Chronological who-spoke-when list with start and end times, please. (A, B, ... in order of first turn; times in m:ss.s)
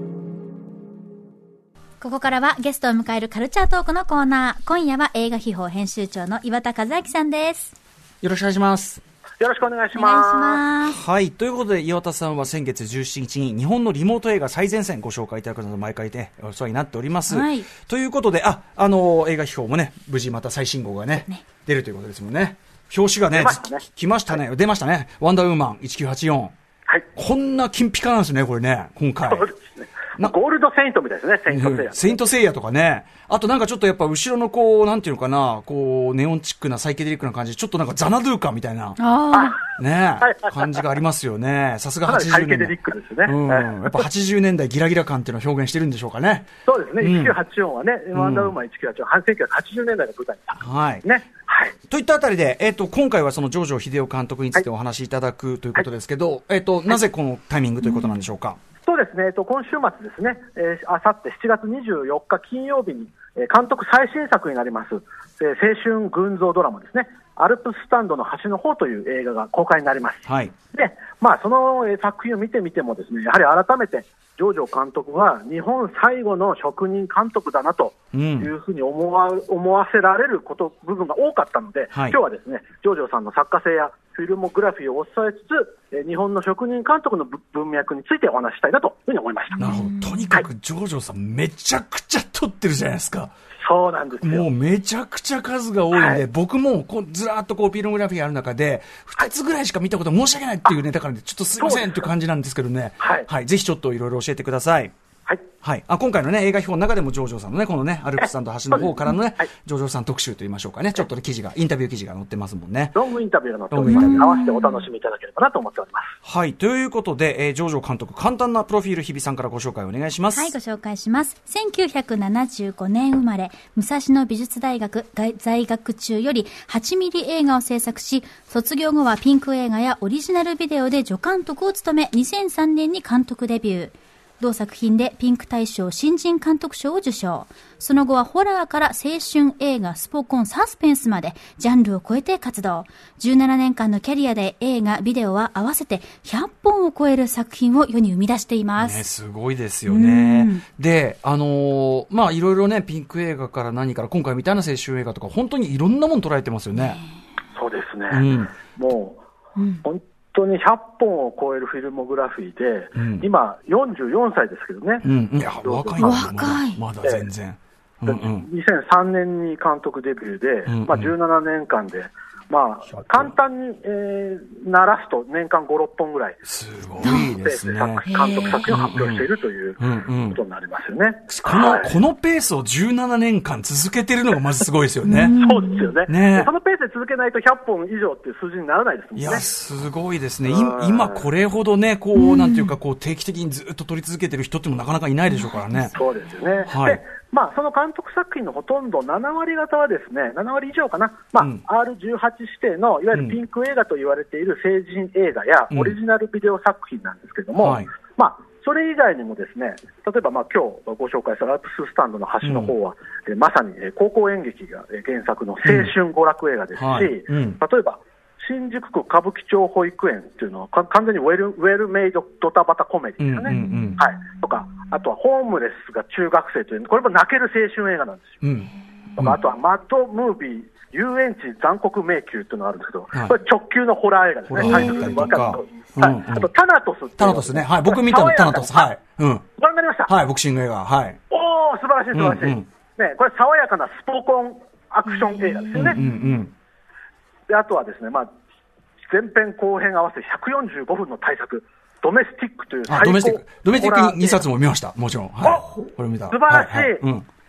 0:02.0-0:07.7 A
0:08.2-0:09.0 B
0:09.4-0:10.6 C
0:09.9-0:11.0 A
0:10.8-0:26.5 B
0:17.3-0:17.6 A
0:23.3-0:23.8 C
0:27.1-0:29.5 B
0:29.3-0:32.2 C
0:31.5-0:39.0 B
0:39.0-0:39.6 A
0:39.6-0:47.4 B
0:40.2-0:40.9 C
0:42.0-0:44.1 C
0:46.6-0:51.7 C
0:48.1-0:48.6 B
0:50.6-0:51.0 B
0:51.9-0:58.6 B
0:58.8-1:30.4 C
1:10.2-1:10.5 B
1:18.1-1:18.5 B
1:29.6-1:33.3 B
1:29.6-1:30.2 A
1:33.6-1:34.5 C
1:34.2-1:44.9 B
1:35.9-1:36.2 C
1:41.6-1:42.1 C
1:43.0-1:43.3 C
1:45.6-1:53.0 B
1:48.2-1:49.5 C
1:52.9-1:56.2 C
1:53.7-1:54.3 B
1:53.9-1:54.8 A
1:56.2-2:00.5 B
2:00.3-2:29.0 A
2:28.8-2:37.0 B
2:29.8-2:30.6 A
2:36.7-2:37.0 A
2:37.5-2:39.2 C
2:38.1-2:38.5 B
2:39.6-2:39.8 A
2:39.8-2:46.3 C
2:43.0-2:43.3 B
2:45.0-2:48.5 B
2:46.0-2:46.8 A
2:47.0-2:47.3 C
2:48.0-2:56.4 C
2:50.6-2:51.1 B
2:52.9-2:53.3 B
2:56.4-3:00.4 B
2:57.0-2:57.3 A
2:57.0-3:02.0 C
2:58.0-2:58.7 A
3:01.3-3:05.4 B
3:05.0-3:05.9 A
3:05.4-3:09.4 C
3:06.0-3:06.5 B
3:09.1-3:16.0 B
3:10.4-3:11.3 C
3:12.1-3:12.7 A
3:15.5-3:16.0 A
3:15.9-3:48.4 C
3:16.7-3:17.0 B
3:25.7-3:26.0 B
3:27.6-3:27.9 B
3:32.4-3:32.7 B
3:35.6-3:35.9 B
3:36.8-3:37.6 B
3:43.2-3:44.0 B
3:43.5-3:43.9 A
3:48.4-3:49.4 B
3:49.2-3:58.9 C
3:54.5-3:56.5 B
3:54.6-3:55.1 A
3:57.2-3:59.4 B
3:59.6-4:00.1 C
4:00.1-4:01.2 B
4:01.3-4:06.0 C
4:02.1-4:02.7 B
4:05.1-4:06.2 A
4:05.7-4:06.5 B
4:07.5-4:08.3 C
4:09.1-4:14.5 C
4:12.9-4:17.2 B
4:15.4-4:17.0 C